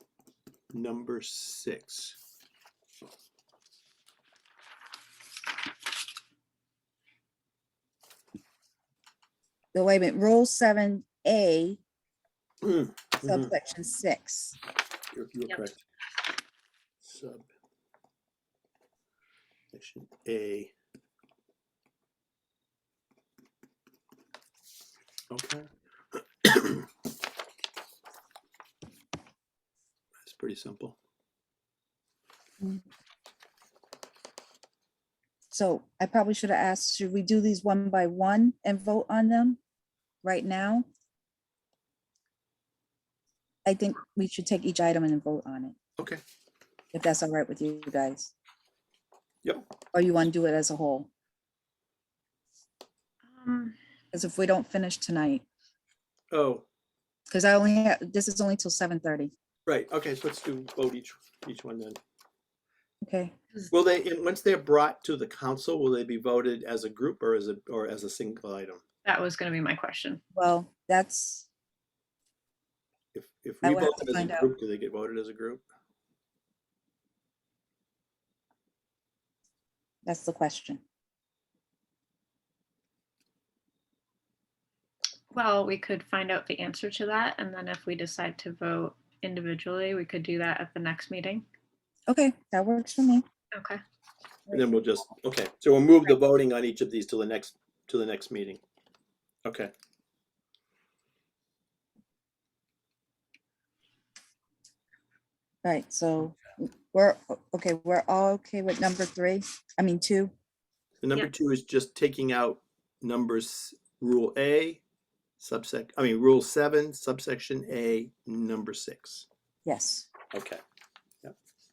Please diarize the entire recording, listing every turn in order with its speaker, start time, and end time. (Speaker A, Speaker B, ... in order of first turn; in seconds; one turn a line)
Speaker A: 0.7-2.2
Speaker B: 9.7-11.8
Speaker A: 12.6-13.5
Speaker B: 13.2-14.6
Speaker A: 15.1-15.8
Speaker A: 17.0-17.5
Speaker A: 19.7-20.7
Speaker A: 25.3-26.9
Speaker A: 30.2-30.9
Speaker B: 35.5-39.6
Speaker B: 40.2-40.9
Speaker B: 43.6-45.8
Speaker B: 46.9-48.3
Speaker B: 49.9-51.1
Speaker C: 53.3-53.8
Speaker B: 54.1-55.4
Speaker A: 56.3-56.6
Speaker B: 57.3-59.3
Speaker A: 59.6-62.0
Speaker B: 63.0-63.3
Speaker A: 63.7-68.8
Speaker C: 69.0-70.2
Speaker B: 70.3-71.5
Speaker A: 73.1-75.6
Speaker B: 73.6-74.5
Speaker B: 80.0-80.8
Speaker C: 85.3-91.4
Speaker B: 92.1-93.2
Speaker C: 93.5-93.8
Speaker A: 94.5-98.6
Speaker A: 99.4-99.7
Speaker B: 105.6-110.3
Speaker A: 111.0-114.8
Speaker A: 115.4-119.3
Speaker B: 119.6-120.1
Speaker A: 120.3-120.6